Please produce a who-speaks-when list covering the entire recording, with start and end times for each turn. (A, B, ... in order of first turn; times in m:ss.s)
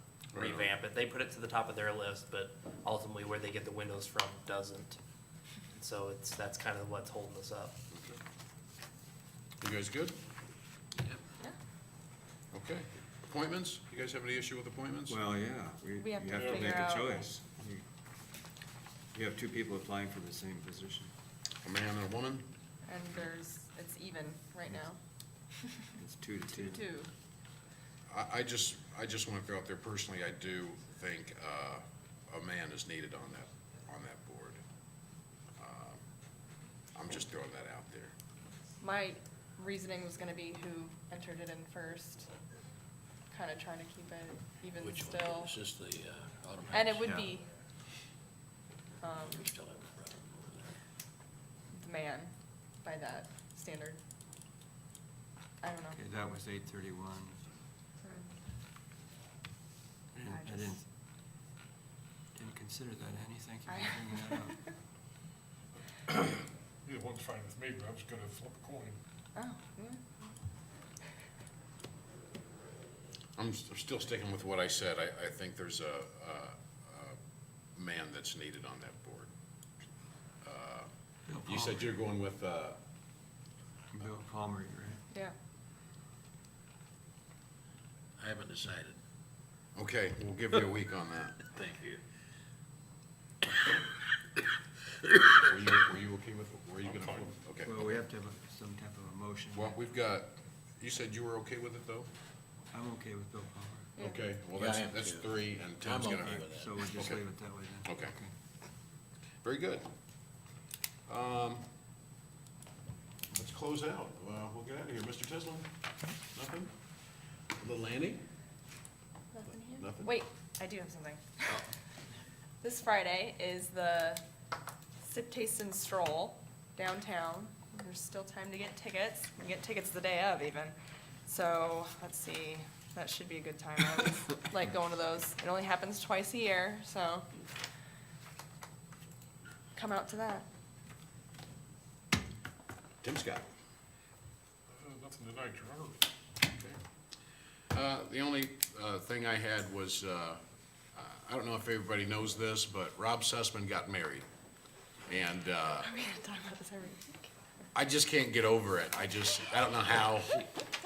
0:00.3-0:00.7 A
0:00.3-0:05.0 B
0:05.7-0:07.8 B
0:07.9-0:08.2 A
0:09.6-0:10.2 A
0:12.5-0:15.2 A
0:15.1-0:17.8 C
0:16.0-0:17.2 D
0:16.3-0:17.3 E
0:19.1-0:21.1 C
0:21.6-0:22.5 A
0:22.8-0:25.0 D
0:26.0-0:26.8 C
0:26.5-0:27.1 D
0:28.1-0:34.6 A
0:35.6-0:36.0 A
0:36.9-0:38.1 A
0:38.8-0:42.3 D
0:43.3-0:45.5 D
0:44.7-0:47.2 F
0:46.7-0:47.4 D
0:47.0-0:47.3 C
0:49.0-0:49.5 D
0:49.2-0:50.8 F
0:51.7-0:54.0 D
0:55.6-0:56.0 D
0:55.9-0:57.4 C
0:58.0-0:58.4 D
1:00.1-1:00.8 C
1:00.2-1:00.8 D
1:02.3-1:04.6 C
1:03.7-1:04.5 D
1:06.8-1:09.0 E
1:09.3-1:10.2 D
1:13.4-1:17.2 A
1:17.7-1:19.3 A
1:20.4-1:20.9 A
1:21.3-1:21.9 C
1:21.4-1:22.8 A
1:23.9-1:25.0 C
1:28.2-1:29.0 F
1:29.8-1:31.4 A
1:31.5-1:32.0 F
1:35.0-1:35.4 F
1:35.4-1:37.7 A
1:36.8-1:37.3 E
1:37.6-1:39.8 C
1:39.5-1:42.1 A
1:42.7-1:43.9 C
1:44.0-1:46.4 A
1:44.5-1:46.8 F
1:46.3-1:48.3 C
1:46.9-1:47.2 A
1:47.8-1:48.1 A
1:49.4-1:49.8 A
1:51.1-1:51.6 A
1:53.3-1:55.7 A
1:56.3-1:56.7 A
1:57.5-1:58.2 A
1:59.3-2:01.6 D
1:59.8-2:00.2 A
2:02.6-2:04.2 D
2:05.0-2:17.3 D
2:19.8-2:20.4 D
2:23.0-2:23.5 A
2:24.7-2:26.1 E
2:26.4-2:26.8 A
2:27.7-2:30.4 A
2:30.9-2:34.2 A
2:35.1-2:35.9 A
2:35.8-2:37.3 D
2:37.7-2:40.4 A